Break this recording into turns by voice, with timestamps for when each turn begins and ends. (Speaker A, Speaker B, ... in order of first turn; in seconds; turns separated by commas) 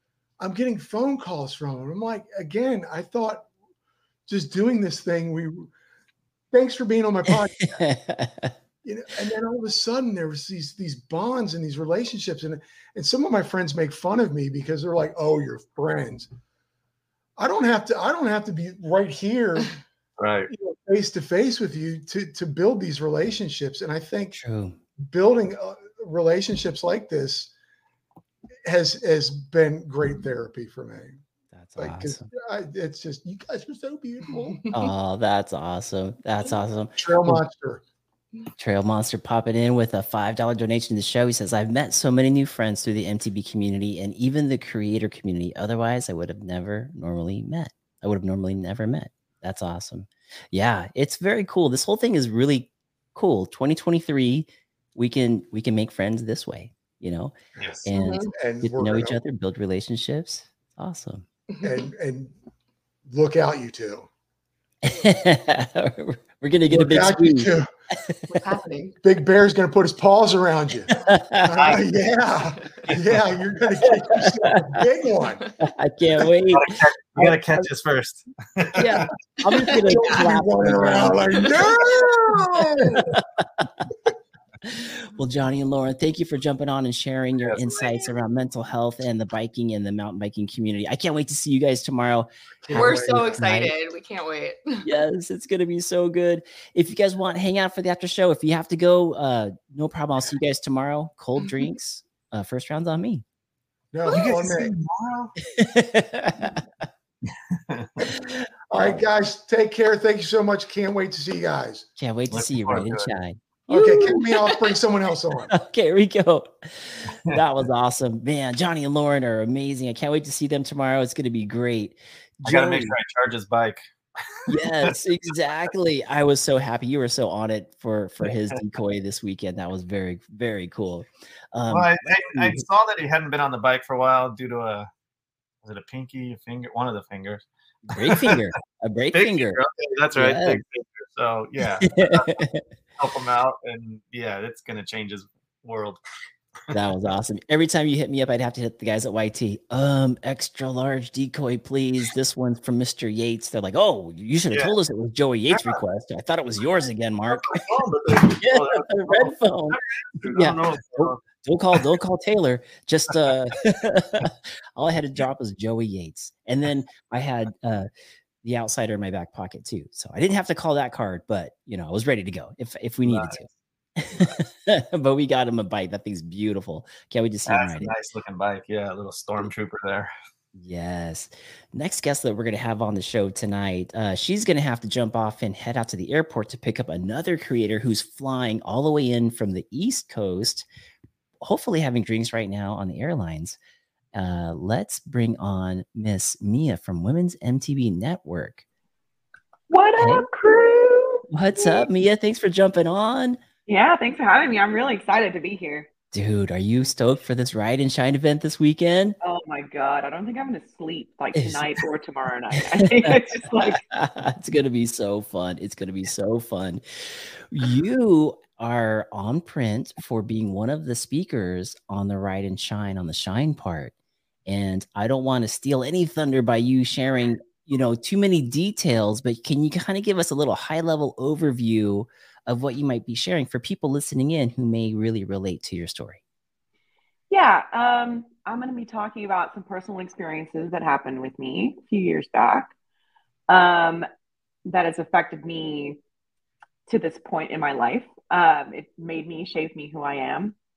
Speaker A: 0.4-3.5, Speaker A: 4.3-5.7, Speaker A: 6.5-7.8, Speaker B: 7.7-8.5, Speaker A: 8.8-16.3, Speaker A: 17.4-19.8, Speaker C: 20.2-20.5, Speaker A: 20.5-24.4, Speaker B: 24.3-24.8, Speaker A: 25.0-27.5, Speaker A: 28.6-31.2, Speaker B: 31.5-32.3, Speaker A: 31.8-34.6, Speaker B: 34.7-37.4, Speaker A: 37.0-37.8, Speaker B: 38.6-57.3, Speaker C: 57.6-57.9, Speaker B: 57.9-61.2, Speaker D: 57.9-58.3, Speaker A: 58.4-59.2, Speaker A: 61.6-62.3, Speaker A: 63.1-64.1, Speaker B: 64.8-67.5, Speaker A: 66.7-67.7, Speaker D: 68.3-68.9, Speaker A: 68.8-75.5, Speaker B: 70.9-71.5, Speaker C: 71.5-71.8, Speaker C: 72.9-73.3, Speaker B: 74.1-74.6, Speaker B: 75.6-77.7, Speaker C: 76.5-79.1, Speaker B: 78.8-81.5, Speaker A: 79.6-83.0, Speaker B: 83.2-83.9, Speaker B: 84.6-93.7, Speaker C: 87.4-87.8, Speaker A: 92.7-93.1, Speaker D: 92.7-94.8, Speaker B: 94.8-103.2, Speaker A: 103.9-104.7, Speaker C: 104.1-105.3, Speaker B: 105.5-106.6, Speaker C: 107.6-107.9, Speaker A: 108.1-111.9, Speaker B: 112.0-114.1, Speaker C: 112.3-113.1, Speaker A: 113.7-115.5, Speaker B: 115.5-123.0, Speaker C: 122.4-123.8, Speaker B: 124.5-132.6, Speaker C: 131.7-134.9, Speaker C: 135.6-137.4, Speaker B: 137.9-139.6, Speaker C: 138.0-138.3, Speaker C: 139.1-142.3, Speaker B: 140.2-140.6, Speaker B: 141.8-142.6, Speaker C: 143.0-146.0, Speaker B: 146.7-157.6, Speaker C: 155.5-155.8, Speaker C: 157.3-161.2, Speaker B: 158.4-159.8, Speaker B: 160.3-167.9, Speaker B: 168.4-173.5, Speaker C: 173.0-173.4, Speaker B: 174.0-177.9, Speaker C: 177.5-180.1, Speaker B: 180.5-190.7, Speaker B: 191.4-193.6, Speaker B: 194.1-198.6, Speaker E: 199.7-201.9, Speaker B: 200.0-200.2, Speaker B: 201.3-203.4, Speaker E: 203.7-205.9, Speaker B: 206.1-209.2, Speaker E: 209.2-213.8, Speaker B: 211.3-211.7, Speaker B: 212.6-223.9, Speaker B: 224.5-236.2, Speaker E: 237.3-242.7, Speaker E: 243.5-244.1, Speaker E: 244.7-246.0, Speaker E: 246.9-250.6